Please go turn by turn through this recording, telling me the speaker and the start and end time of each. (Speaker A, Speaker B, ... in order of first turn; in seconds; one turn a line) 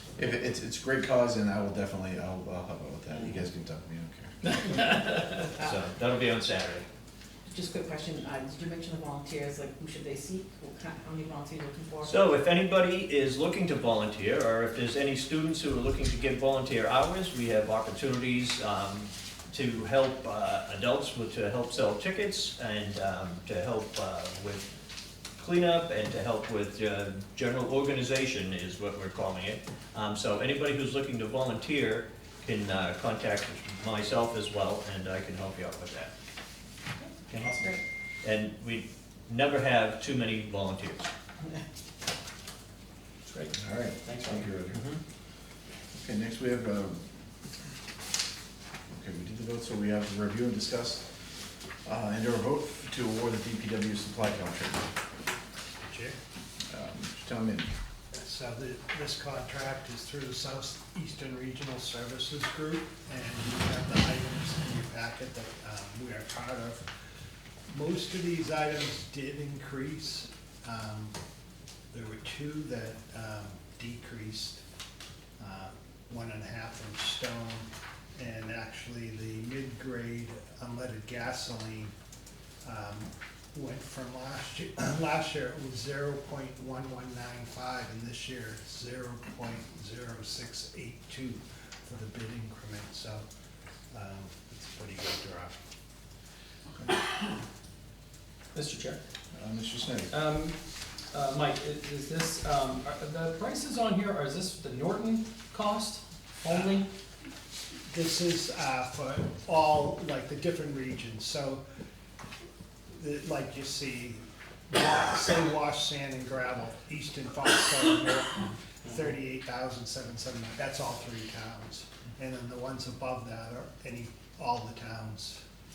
Speaker A: 0.2-4.6
Speaker B: 5.1-6.9
Speaker C: 7.5-12.2
Speaker B: 12.0-24.7
Speaker B: 25.4-36.1
Speaker B: 38.2-41.1
Speaker D: 43.3-44.5
Speaker A: 43.6-44.9
Speaker B: 44.7-45.0
Speaker A: 45.9-47.0
Speaker A: 48.9-51.1
Speaker A: 51.9-54.9
Speaker E: 55.8-56.2
Speaker A: 56.7-57.7
Speaker E: 58.1-66.9
Speaker E: 67.7-71.2
Speaker E: 71.9-74.6
Speaker E: 75.4-81.9
Speaker E: 82.6-93.2
Speaker E: 93.9-95.6
Speaker D: 98.5-99.0
Speaker A: 99.3-100.1
Speaker D: 100.1-100.6
Speaker D: 101.1-106.9
Speaker E: 107.9-111.6
Speaker E: 112.9-125.4